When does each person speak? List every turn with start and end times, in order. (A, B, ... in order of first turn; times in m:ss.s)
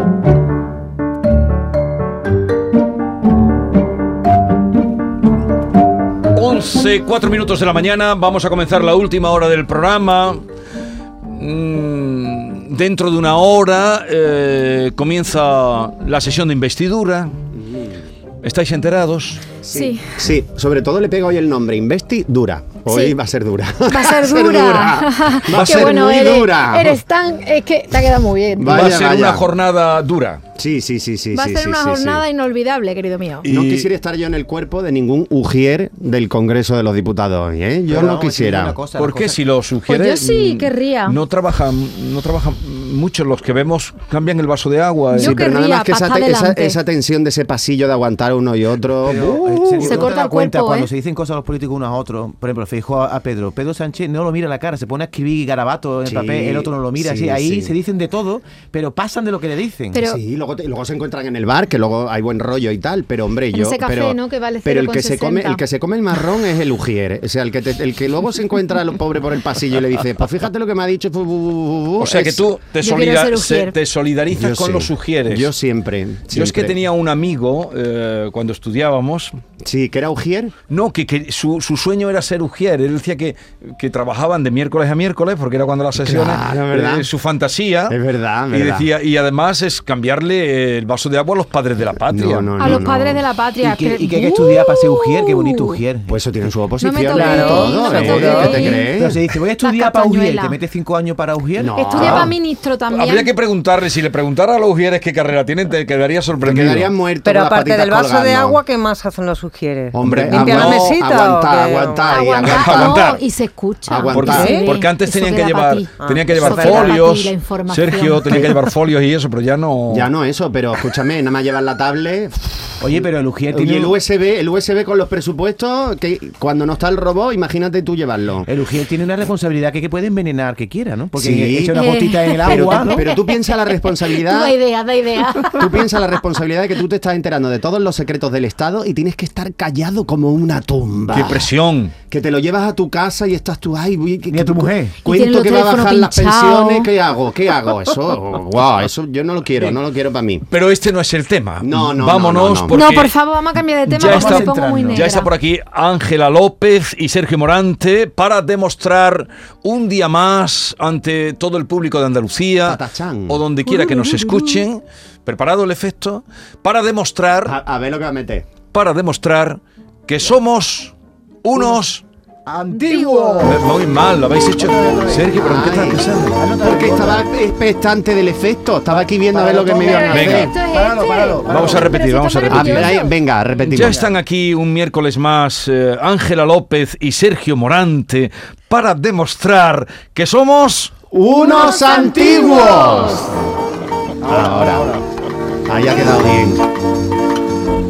0:06.3-0:10.4 A
0:11.3-0:17.3 A
0:17.5-0:18.0 B
0:18.4-0:19.4 A
0:19.6-0:27.0 B
0:19.7-0:20.1 C
0:22.9-0:23.1 C
0:23.9-0:28.8 C
0:25.5-0:26.0 A
0:28.6-0:29.5 B
0:28.7-0:30.4 A
0:30.6-0:32.2 B
0:31.3-0:33.4 C
0:33.4-0:33.9 A
0:33.4-0:38.8 B
0:37.9-0:39.4 D
0:39.0-0:45.4 A
0:39.9-0:41.2 C
0:45.1-0:46.8 C
0:45.2-0:50.1 B
0:49.0-1:00.0 D
0:49.8-0:50.9 C
0:56.0-0:57.7 B
0:59.9-1:00.2 C
1:00.0-1:12.5 B
1:03.5-1:05.6 C
1:12.0-1:15.5 A
1:12.8-1:13.8 C
1:14.3-1:16.8 B
1:16.3-1:19.4 A
1:19.6-1:20.6 B
1:20.7-1:28.0 A
1:26.0-1:27.1 B
1:27.9-1:28.9 B
1:28.5-1:32.5 A
1:32.1-1:33.2 B
1:32.6-1:35.8 C
1:33.6-1:36.2 D
1:36.1-1:39.2 B
1:36.8-1:38.9 C
1:37.1-1:42.3 D
1:38.1-1:38.5 E
1:39.6-1:40.6 C
1:41.6-1:42.3 B
1:41.8-1:43.3 C
1:42.9-1:46.9 A
1:46.4-1:48.6 B
1:47.2-1:52.3 E
1:49.9-1:53.0 B
1:50.0-1:51.0 A
1:52.1-1:58.6 C
1:52.4-1:53.2 A
1:53.9-1:54.6 B
1:54.1-2:00.1 A
1:54.3-1:54.7 E
1:56.0-1:57.0 E
1:59.9-2:08.5 B
2:02.8-2:04.0 D
2:08.5-2:13.0 D
2:11.2-2:11.8 B
2:11.8-2:13.2 C
2:12.4-2:14.6 B
2:13.7-2:15.9 C
2:15.6-2:21.5 B
2:21.1-2:21.9 A
2:22.1-2:30.4 B
2:24.3-2:24.9 D
2:25.0-2:26.9 C
2:30.5-2:33.1 A
2:31.6-2:32.8 B
2:32.7-2:35.3 C
2:33.9-2:35.0 D
2:33.9-2:47.6 A
2:42.6-2:43.4 B
2:43.6-2:44.6 C
2:47.4-2:48.5 B
2:48.7-2:52.0 A
2:52.4-2:53.7 D
2:52.7-2:53.6 C
2:53.4-2:56.4 A
2:54.5-2:55.8 D
2:55.4-2:56.0 B
2:56.3-2:57.3 D
2:56.6-3:00.5 B
2:59.0-3:02.0 D
2:59.8-3:03.1 C
3:00.1-3:00.5 A
3:01.4-3:03.0 A
3:02.5-3:04.0 B
3:03.7-3:10.9 A
3:11.1-3:13.3 B
3:11.3-3:13.3 C
3:14.2-3:15.0 D
3:14.3-3:14.9 B
3:15.7-3:16.6 B